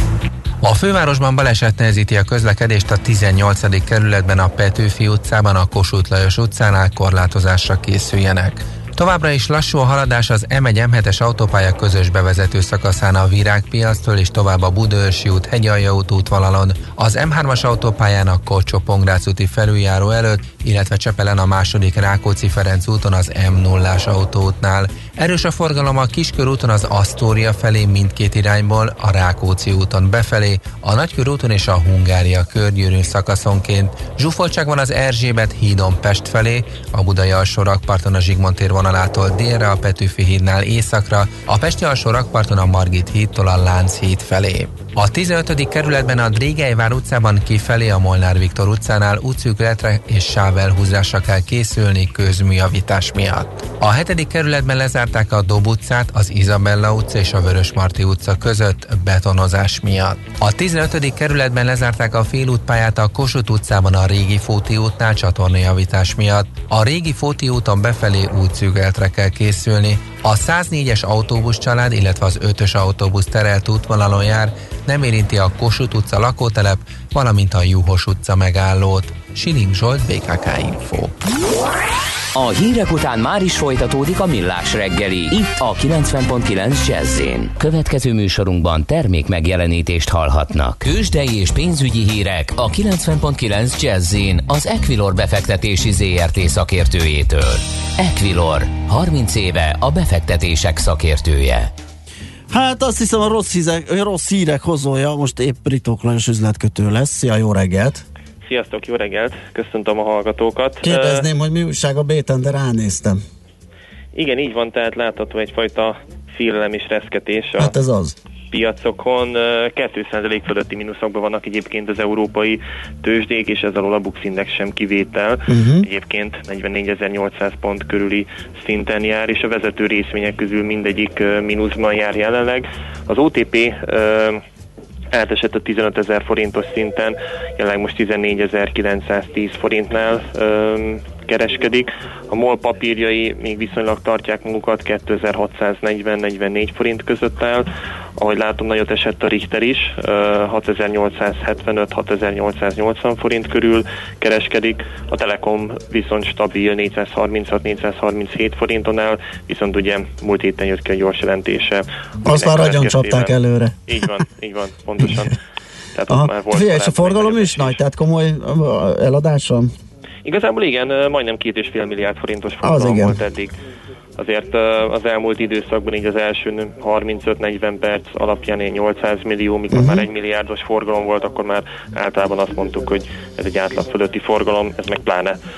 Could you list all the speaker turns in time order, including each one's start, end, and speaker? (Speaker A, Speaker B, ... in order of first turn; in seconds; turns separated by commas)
Speaker A: 0.6-81.1, Speaker B: 82.3-101.7, Speaker C: 102.5-108.0, Speaker D: 108.4-111.2, Speaker C: 110.8-113.2, Speaker D: 114.1-117.7, Speaker C: 117.6-118.1, Speaker D: 118.5-134.4, Speaker C: 125.5-125.9, Speaker D: 135.1-163.3, Speaker C: 162.2-163.8, Speaker D: 163.9-165.3, Speaker D: 165.9-167.8, Speaker C: 166.1-169.7, Speaker D: 170.2-173.6, Speaker C: 172.6-173.2, Speaker D: 174.2-185.4, Speaker C: 179.7-180.1